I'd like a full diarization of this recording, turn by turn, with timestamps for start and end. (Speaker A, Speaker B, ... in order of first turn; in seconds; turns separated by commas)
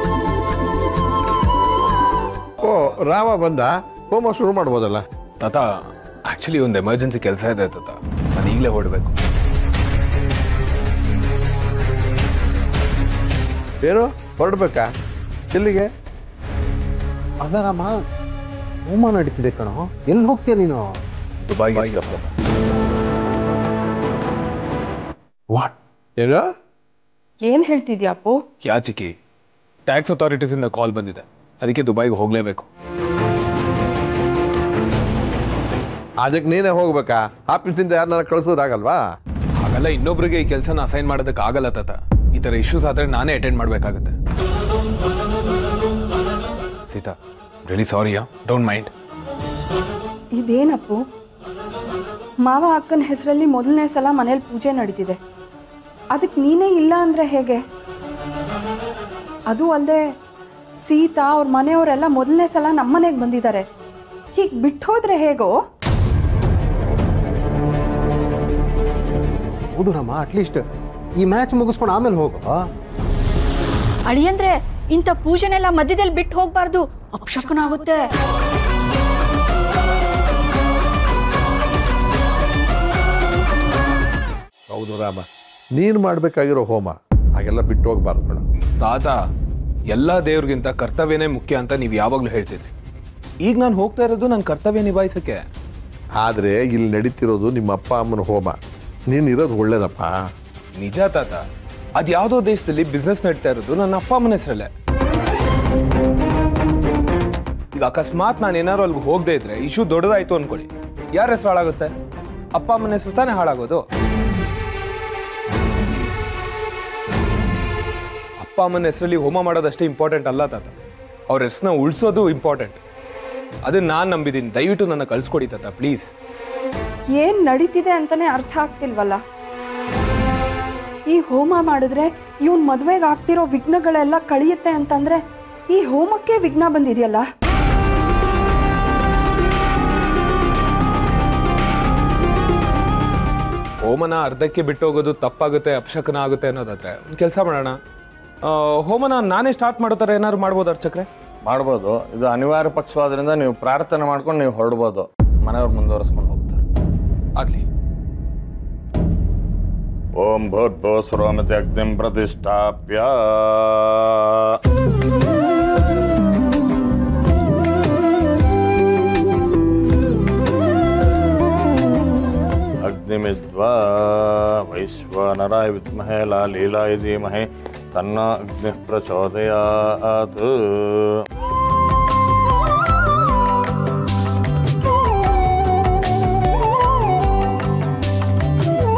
Speaker A: 2.6-5.0, Speaker B: 5.4-5.7, Speaker B: 6.3-9.1, Speaker A: 13.8-14.9, Speaker A: 15.5-15.9, Speaker C: 17.4-18.0, Speaker C: 18.9-20.9, Speaker B: 21.5-22.3, Speaker A: 25.5-26.5, Speaker D: 27.4-28.4, Speaker B: 28.6-29.1, Speaker B: 29.9-32.7, Speaker A: 36.2-39.0, Speaker B: 39.5-44.1, Speaker B: 46.9-48.9, Speaker D: 50.4-51.0, Speaker D: 52.5-55.2, Speaker D: 56.1-57.6, Speaker D: 59.5-60.0, Speaker D: 60.8-63.6, Speaker D: 64.3-65.5, Speaker C: 69.8-70.7, Speaker C: 71.2-72.6, Speaker E: 74.1-78.1, Speaker A: 84.7-85.2, Speaker A: 85.8-88.4, Speaker B: 88.8-89.2, Speaker B: 89.9-92.7, Speaker B: 93.4-95.5, Speaker A: 96.2-98.6, Speaker A: 99.1-100.3, Speaker B: 100.8-101.4, Speaker B: 102.0-104.7, Speaker B: 107.8-111.9, Speaker B: 112.5-113.8, Speaker B: 118.4-120.7, Speaker B: 121.3-122.8, Speaker B: 123.7-126.1, Speaker D: 127.2-129.2, Speaker D: 131.1-135.2, Speaker D: 135.7-137.2, Speaker B: 143.8-147.8, Speaker B: 148.5-151.1, Speaker F: 151.4-156.6, Speaker B: 157.4-157.6, Speaker F: 160.2-164.2, Speaker F: 172.8-181.2